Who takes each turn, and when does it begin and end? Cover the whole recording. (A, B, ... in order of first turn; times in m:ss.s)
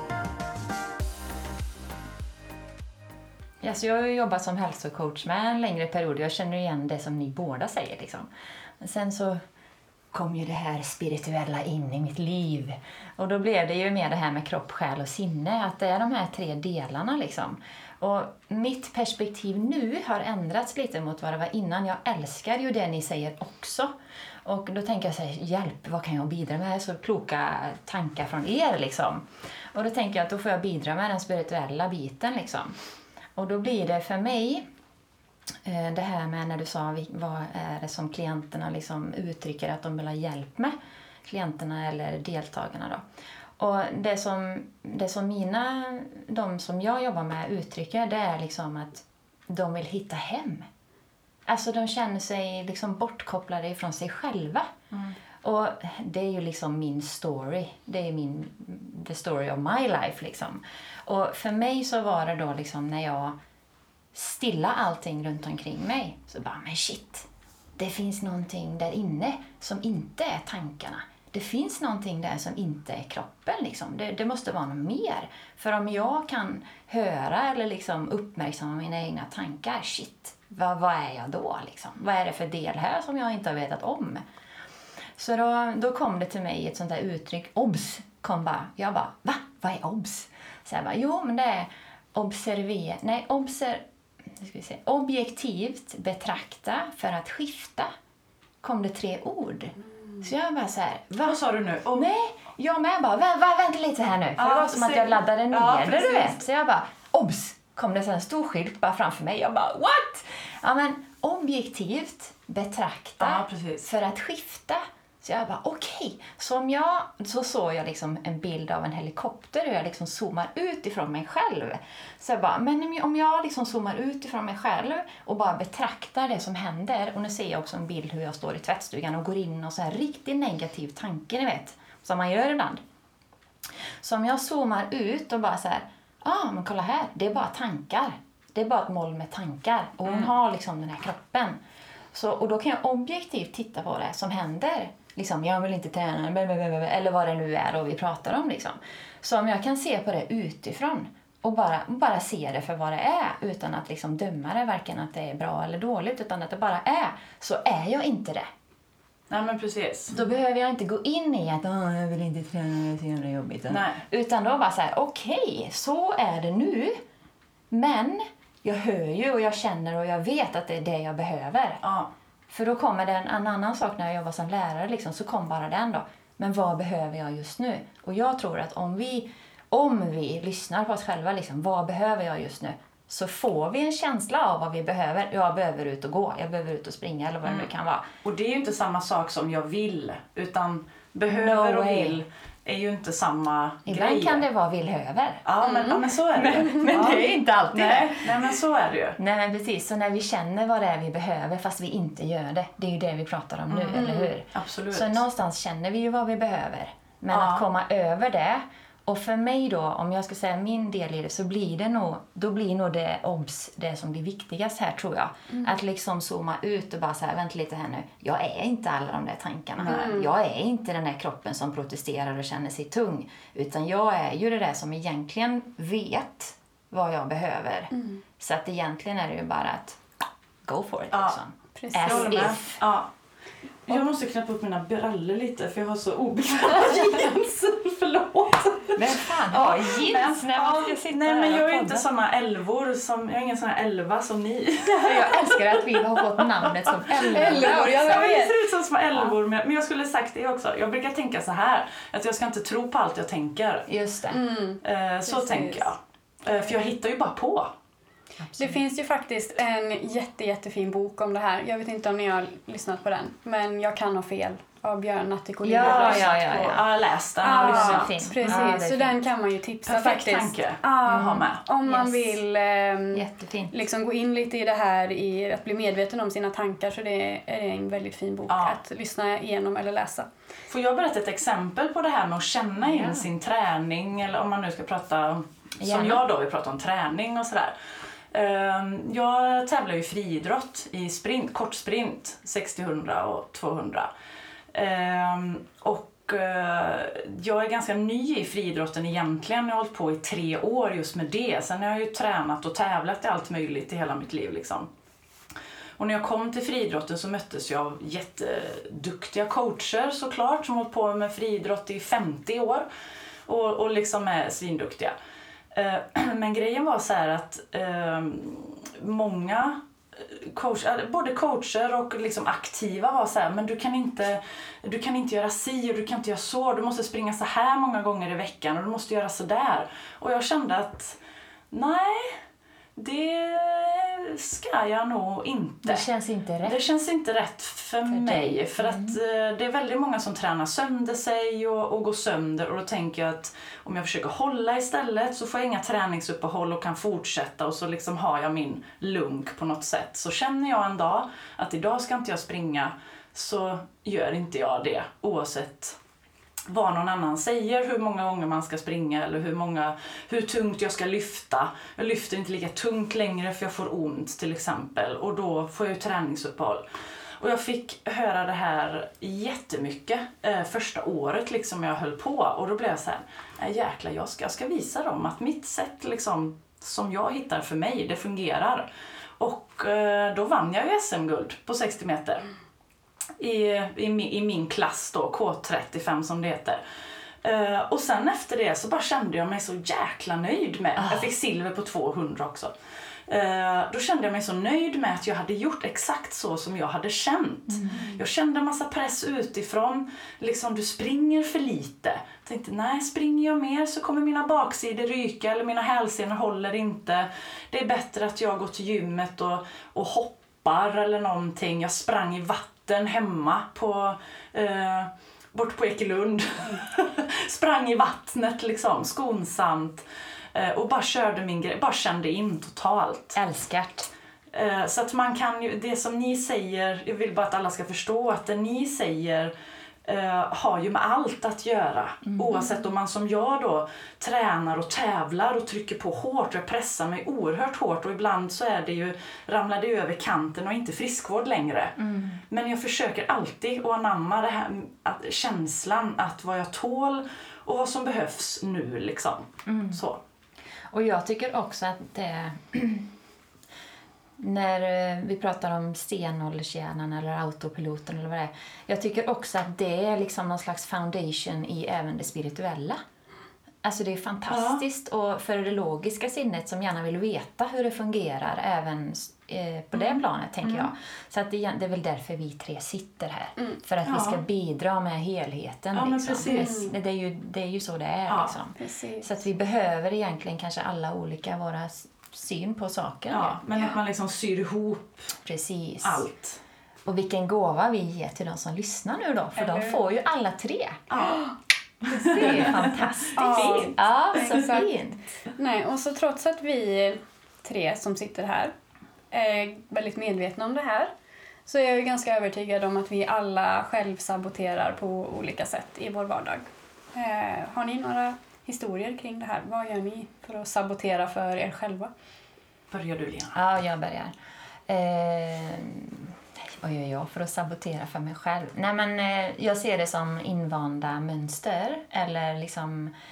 0:03.6-0:08.3 A
0:08.8-0:09.4 A
0:10.1-0:23.9 A
0:24.4-0:32.7 A
0:33.4-0:34.6 A
0:35.6-0:43.0 A
0:43.6-0:50.7 A
0:51.5-0:54.7 A
0:55.4-1:03.4 A
1:04.1-1:24.2 A
1:25.2-1:37.9 A
1:38.6-1:41.4 A
1:41.3-1:42.1 B
1:41.9-2:12.8 A
1:44.4-1:46.4 B
1:53.2-1:53.9 B
2:14.0-2:21.6 A
2:22.1-2:38.5 A
2:39.3-2:40.2 B
2:40.1-2:47.0 A
2:43.7-2:44.0 B
2:47.7-2:51.8 A
2:51.8-2:52.1 B
2:52.5-3:08.1 A
3:07.4-3:07.7 B
3:08.2-3:14.4 B
3:11.3-3:12.2 A
3:13.9-3:15.4 A
3:15.5-3:19.2 B
3:15.6-3:16.8 C
3:16.4-3:18.3 A
3:19.2-3:50.0 A
3:23.7-3:25.2 B
3:27.3-3:27.6 B
3:35.5-3:35.8 C
3:39.8-3:40.1 B
3:39.9-3:40.3 C
3:47.9-3:48.2 C
3:50.6-3:52.8 A
3:51.1-3:51.4 B
3:51.8-3:52.5 C
3:52.0-3:53.1 B
3:53.9-4:13.9 B
3:59.0-4:02.1 A
4:04.8-4:08.5 A
4:07.1-4:08.6 C
4:13.9-4:14.4 A
4:14.3-4:15.9 C
4:14.8-4:17.7 B
4:18.4-4:18.8 A
4:18.6-4:26.4 C
4:25.6-4:29.2 A
4:25.8-4:28.7 B
4:27.4-4:40.3 C
4:29.9-4:31.6 B
4:31.1-4:32.4 A
4:33.1-4:33.8 A
4:38.5-4:38.8 B
4:40.7-4:47.7 B
4:42.8-4:43.3 A
4:45.8-4:46.2 A
4:48.3-4:54.1 B
4:54.7-5:04.9 B
5:06.0-5:12.9 B
5:13.5-5:15.2 B
5:15.7-5:31.2 B
5:31.7-5:32.4 B
5:33.0-5:36.0 B
5:35.8-5:36.8 A
5:36.6-5:56.0 B
5:38.1-5:39.2 A
5:56.7-6:06.8 B
6:07.4-6:18.9 B
6:19.4-6:22.5 B
6:23.4-6:26.8 B
6:27.4-6:32.7 B
6:31.0-6:31.3 A
6:33.3-7:03.4 B
6:37.7-6:38.1 A
7:03.4-7:04.1 A
7:04.5-7:09.5 B
7:10.0-7:22.0 B
7:12.3-7:12.7 A
7:22.0-7:22.4 A
7:22.5-7:30.2 B
7:29.7-7:30.0 A
7:30.9-7:33.1 A
7:34.4-7:43.0 A
7:43.8-8:03.6 A
7:44.5-7:44.8 B
7:49.9-7:50.9 B
7:54.0-7:54.4 B
7:56.0-7:56.7 B
7:56.4-7:57.0 C
7:58.3-7:58.6 B
7:58.8-7:59.3 C
8:03.3-8:05.3 B
8:05.4-8:06.2 A
8:06.0-8:06.6 B
8:07.0-8:11.0 A
8:09.6-8:10.0 C
8:11.1-8:11.4 B
8:11.2-8:11.5 C
8:12.1-8:12.7 C
8:12.1-8:14.0 B
8:12.2-8:15.2 A
8:13.4-8:14.9 C
8:15.6-8:18.7 C
8:19.3-8:21.1 C
8:21.7-8:32.1 C
8:32.9-8:33.6 B
8:33.6-8:34.3 A
8:34.9-8:43.1 A